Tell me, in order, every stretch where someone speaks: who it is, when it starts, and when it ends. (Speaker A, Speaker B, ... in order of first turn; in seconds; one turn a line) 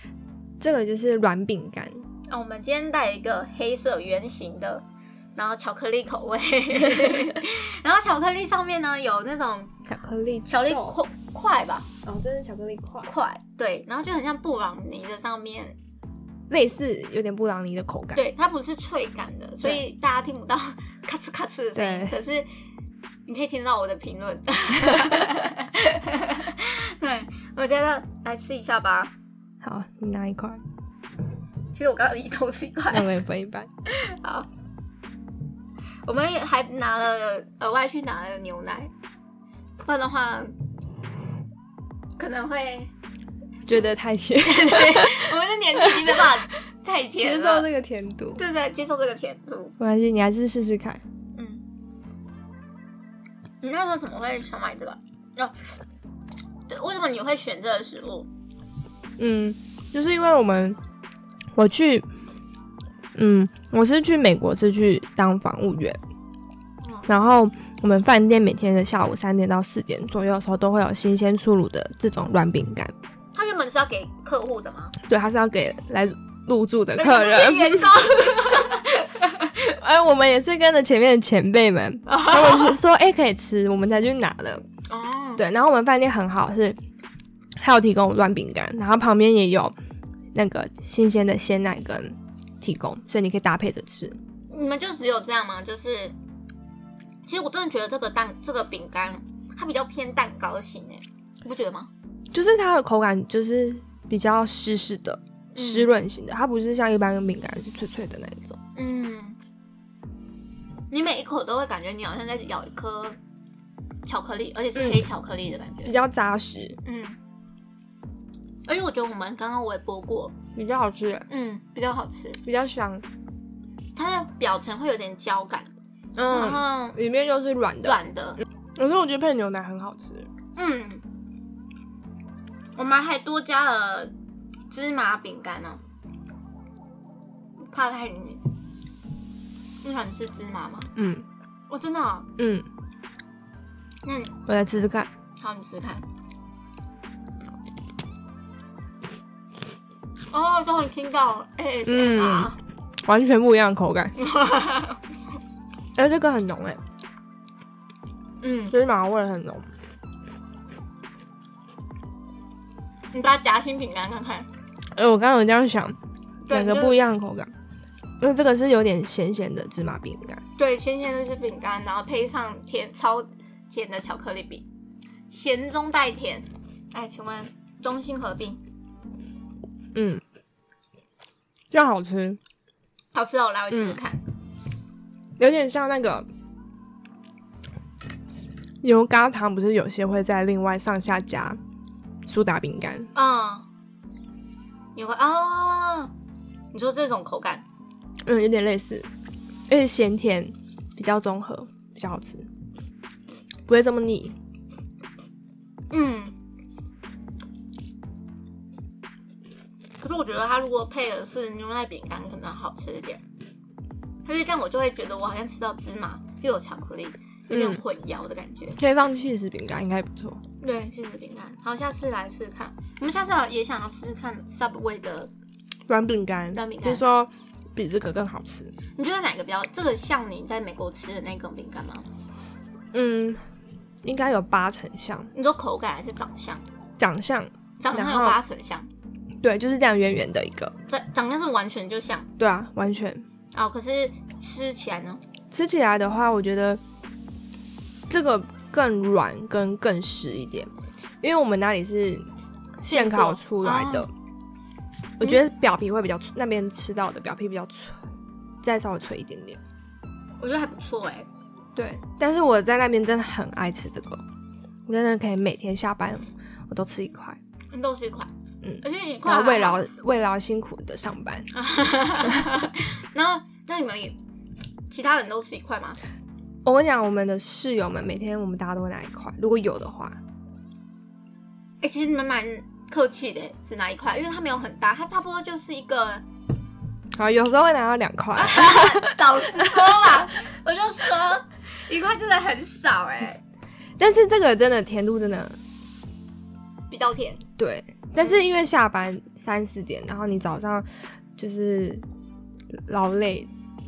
Speaker A: 0.6-2.0
Speaker B: 2.3-4.8
Speaker B: 5.3-9.7
Speaker A: 9.8-11.0
Speaker B: 10.5-11.9
Speaker A: 12.1-13.1
Speaker B: 13.0-15.8
Speaker A: 16.5-18.2
Speaker B: 18.1-22.5
Speaker A: 21.7-22.1
Speaker B: 23.3-29.1
Speaker A: 29.6-30.6
Speaker B: 31.7-33.1
Speaker A: 32.9-33.7
Speaker B: 33.9-34.5
Speaker B: 36.0-38.9
Speaker B: 39.8-40.5
Speaker B: 42.2-42.9
Speaker A: 43.6-46.2
Speaker B: 44.4-47.7
Speaker A: 47.2-48.4
Speaker B: 48.4-49.7
Speaker A: 49.8-51.0
Speaker B: 51.3-51.6
Speaker B: 53.6-55.6
Speaker B: 56.7-58.3
Speaker A: 59.2-60.8
Speaker A: 61.5-62.1
Speaker A: 63.1-66.0
Speaker B: 66.8-67.1
Speaker A: 67.1-72.9
Speaker B: 73.3-74.9
Speaker A: 75.0-78.6
Speaker B: 77.0-79.3
Speaker A: 79.6-84.6
Speaker B: 82.1-82.8
Speaker B: 84.9-85.4
Speaker A: 85.4-86.8
Speaker A: 87.6-89.7
Speaker A: 90.3-94.2
Speaker B: 94.5-96.2
Speaker B: 97.2-101.9
Speaker A: 102.3-108.6
Speaker B: 105.5-105.9
Speaker B: 108.8-109.4
Speaker B: 110.9-113.2
Speaker B: 114.0-115.9
Speaker A: 114.8-115.0
Speaker A: 115.8-116.8
Speaker B: 116.8-117.2
Speaker B: 118.7-120.3
Speaker A: 120.5-121.3
Speaker B: 121.3-122.4
Speaker A: 122.4-123.0
Speaker B: 124.0-125.7
Speaker A: 126.2-128.0
Speaker B: 126.3-127.0
Speaker B: 127.8-128.4
Speaker A: 128.8-130.3
Speaker B: 130.5-131.0
Speaker B: 132.8-134.1
Speaker B: 134.7-135.8
Speaker B: 137.7-138.5
Speaker B: 139.8-140.9
Speaker A: 140.9-141.2
Speaker B: 141.7-142.3
Speaker A: 142.4-142.7
Speaker B: 144.0-144.3
Speaker A: 144.5-145.1
Speaker B: 145.4-146.0
Speaker B: 150.3-152.6
Speaker A: 151.8-154.1
Speaker B: 154.2-155.0
Speaker A: 155.9-156.8
Speaker B: 158.4-158.7
Speaker A: 158.7-159.7
Speaker B: 163.1-164.5
Speaker A: 164.9-166.0
Speaker B: 166.5-167.0
Speaker A: 166.5-167.5
Speaker A: 168.2-170.4
Speaker B: 170.6-174.6
Speaker B: 175.3-178.6
Speaker A: 179.9-180.2
Speaker A: 181.7-182.4
Speaker B: 183.1-184.2
Speaker A: 183.7-184.0
Speaker A: 185.4-186.2
Speaker A: 188.8-191.6
Speaker A: 192.3-193.1
Speaker B: 193.1-193.7
Speaker B: 194.9-196.1
Speaker B: 196.7-197.6
Speaker A: 198.2-199.1
Speaker A: 199.7-202.5
Speaker A: 203.7-204.3
Speaker B: 205.9-206.3
Speaker B: 210.0-213.2
Speaker B: 214.2-218.8
Speaker A: 217.5-217.8
Speaker A: 218.8-220.4
Speaker B: 220.6-225.3
Speaker A: 225.9-228.7
Speaker B: 226.5-227.0
Speaker B: 228.9-232.1
Speaker A: 232.9-233.4
Speaker A: 234.0-235.3
Speaker B: 235.3-236.7
Speaker A: 237.0-238.4
Speaker B: 237.8-238.9
Speaker A: 239.4-240.7
Speaker B: 240.9-242.3
Speaker A: 242.4-243.2
Speaker B: 243.5-245.2
Speaker A: 245.5-246.8
Speaker A: 248.1-252.3
Speaker A: 252.8-254.1
Speaker B: 252.9-254.1
Speaker A: 255.2-258.0
Speaker A: 258.6-259.6
Speaker B: 260.4-261.3
Speaker A: 261.8-264.2
Speaker A: 264.9-267.4
Speaker B: 267.7-268.3
Speaker A: 268.6-271.5
Speaker B: 268.8-269.8
Speaker B: 271.5-274.2
Speaker B: 274.9-276.0
Speaker A: 276.6-280.2
Speaker B: 281.8-286.2
Speaker A: 287.2-289.8
Speaker B: 288.4-293.4
Speaker A: 294.0-295.6
Speaker B: 296.9-297.4
Speaker A: 297.6-302.0
Speaker A: 302.7-303.5